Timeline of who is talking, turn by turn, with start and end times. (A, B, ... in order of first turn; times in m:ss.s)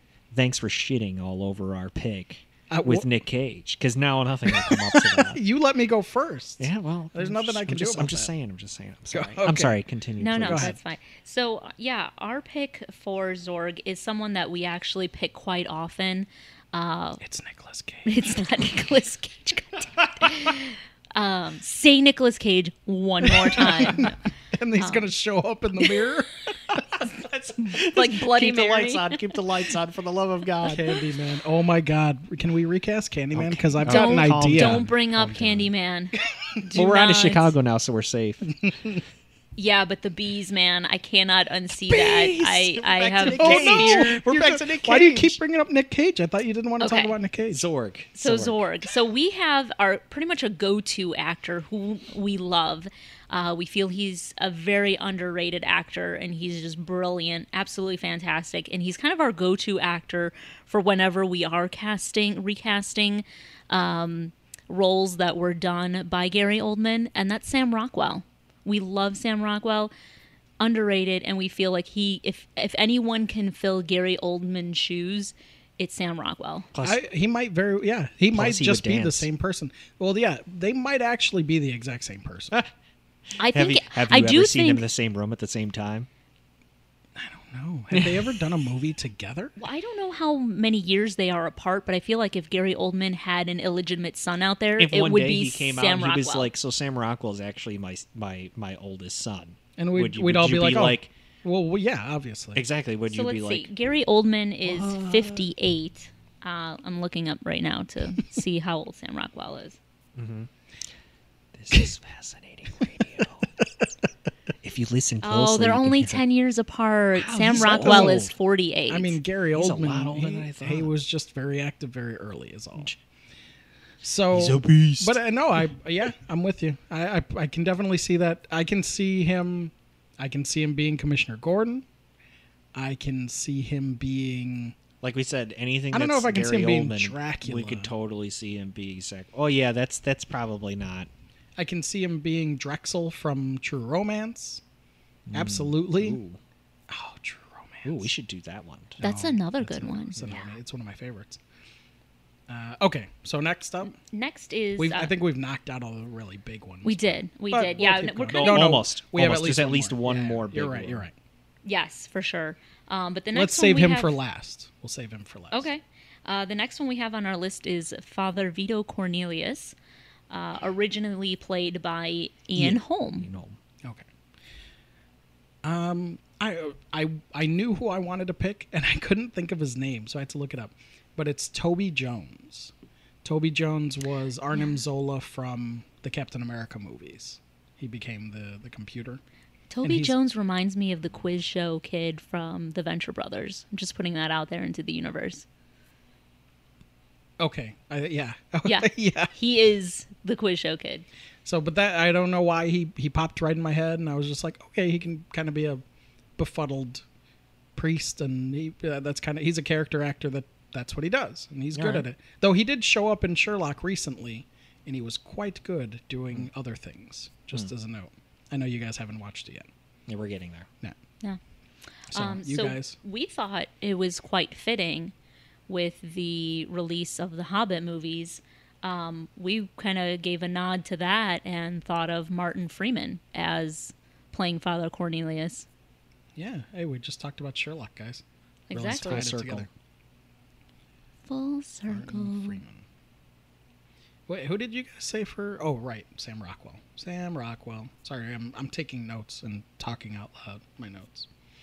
0:00.3-0:05.4 A
0:02.7-0:03.1 B
0:04.5-0:08.3 B
0:06.6-0:10.8 A
0:09.1-0:09.8 B
0:10.2-0:17.2 C
0:10.4-0:10.8 B
0:17.2-0:18.2 B
0:18.0-0:24.1 C
0:23.4-0:27.1 B
0:24.8-0:25.1 C
0:27.2-0:30.9 A
0:27.6-0:29.4 C
0:30.7-0:34.8 B
0:33.3-0:35.7 A
0:33.8-0:36.2 C
0:36.7-0:37.5 C
0:36.7-0:38.6 A
0:39.6-0:44.2 C
0:41.9-0:45.4 A
0:43.3-0:47.6 B
0:46.8-0:47.1 C
0:47.5-0:48.6 A
0:48.2-1:09.9 C
1:10.6-1:16.7 C
1:16.7-1:17.0 A
1:16.8-1:22.6 B
1:18.3-1:19.3 A
1:23.4-1:24.8 C
1:23.5-1:26.1 A
1:27.2-1:29.5 B
1:27.9-1:28.2 A
1:29.6-1:36.5 C
1:34.8-1:41.1 A
1:39.8-1:42.6 B
1:42.6-1:43.7 A
1:43.1-1:49.8 C
1:44.6-1:45.5 A
1:50.2-1:50.5 A
1:51.5-1:53.5 A
1:54.6-1:56.2 A
1:55.2-1:59.2 C
1:57.2-1:58.3 A
1:57.6-1:58.3 B
1:58.9-2:02.9 B
1:59.6-2:00.9 A
2:04.0-2:11.8 B
2:04.3-2:05.7 A
2:12.7-2:14.8 B
2:15.0-2:21.1 A
2:15.9-2:17.9 B
2:21.6-2:24.6 B
2:25.3-2:26.4 A
2:25.3-2:26.2 B
2:26.9-2:28.1 B
2:27.8-2:29.0 A
2:29.0-2:31.4 B
2:29.0-2:30.6 C
2:32.5-2:34.0 B
2:33.8-2:35.1 C
2:34.8-2:41.2 B
2:36.8-2:38.7 C
2:38.3-2:41.0 A
2:41.6-2:44.2 C
2:43.3-2:45.7 B
2:45.5-2:49.8 C
2:50.3-2:53.3 C
2:52.6-2:53.6 A
2:55.6-3:02.7 B
3:03.2-3:09.2 B
3:04.5-3:04.8 C
3:09.7-3:15.4 C
3:09.8-3:10.1 B
3:17.4-3:19.3 B
3:18.6-3:21.1 C
3:21.4-3:25.8 B
3:26.4-3:27.0 B
3:27.8-3:39.7 B
3:31.7-3:32.0 A
3:40.1-3:40.7 A
3:42.1-3:45.1 C
3:42.1-3:43.0 B
3:45.7-3:55.7 C
3:56.4-3:59.7 B
3:58.7-3:59.2 C
3:58.8-3:59.7 A
4:01.3-4:02.6 C
4:01.9-4:02.8 B
4:04.3-4:11.3 B